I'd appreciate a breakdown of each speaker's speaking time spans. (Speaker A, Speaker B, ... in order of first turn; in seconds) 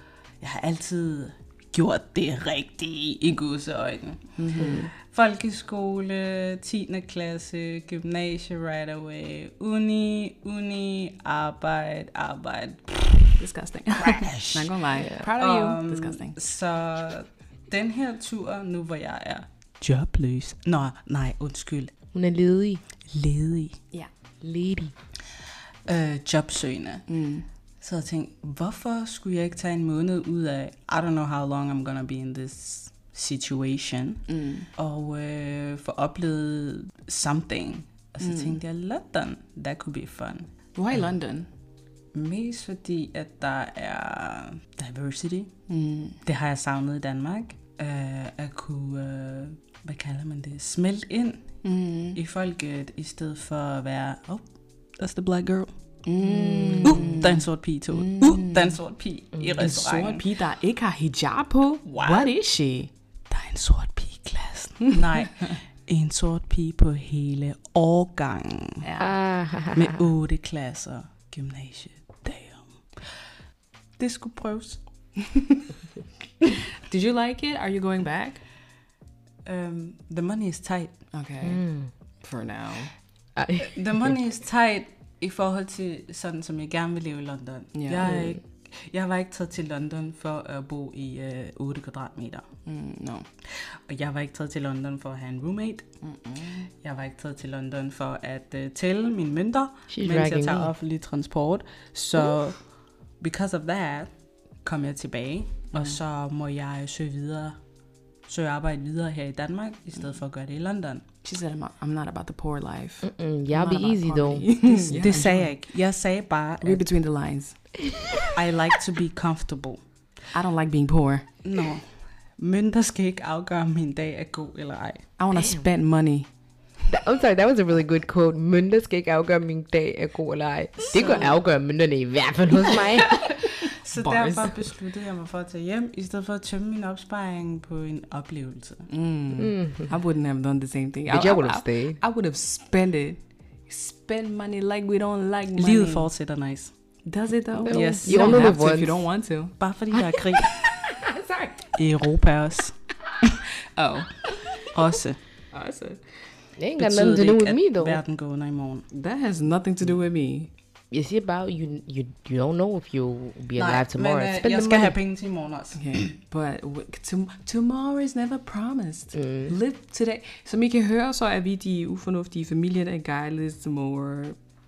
Speaker A: 0.4-13.4, 14.0-14.7, 15.4-21.9, 23.1-23.8, 25.9-27.1, 27.8-40.5, 42.1-45.5, 46.2-51.5, 52.1-54.5, 55.0-55.7, 56.8-60.2, 61.9-62.3, 63.3-68.8, 69.7-72.6, 74.0-74.8, 79.4-80.9, 83.6-92.5, 93.5-95.8, 96.8-102.6, 103.2-104.1, 104.6-107.6, 108.3-111.0, 114.9-116.8, 118.3-119.8, 121.4-125.0, 133.2-138.9, 145.6-146.7, 147.7-148.5, 149.6-150.6, 151.7-152.8, 154.7-155.2, 156.8-158.8, 163.6-166.1
Speaker B: 4.4-4.9, 13.4-16.4, 27.1-27.4, 34.3-34.7, 38.2-38.6, 40.7-41.5, 45.7-46.2, 51.6-52.2, 56.0-58.8, 59.6-62.9, 68.8-69.1, 75.2-75.6, 76.7-78.4, 81.1-81.6, 82.2-82.9, 87.7-88.1, 92.7-93.3, 96.0-96.7, 111.2-115.5, 116.6-117.6, 120.3-121.3, 125.2-126.3, 130.9-131.4, 132.7-134.7, 138.9-146.1, 147.1-149.5, 153.8-154.7, 155.5-156.0, 158.9-160.5, 165.7-174.4
Speaker C: 15.0-15.2, 22.1-22.8, 24.4-24.9, 56.2-57.0, 69.0-70.0, 81.4-81.9, 83.3-84.1, 88.0-88.4, 99.9-100.7, 113.0-115.2, 117.8-118.3, 125.3-125.6, 126.9-133.2, 139.3-139.9, 141.1-142.0, 147.6-149.0, 149.9-151.7, 156.6-158.0, 160.9-164.9, 169.1-169.5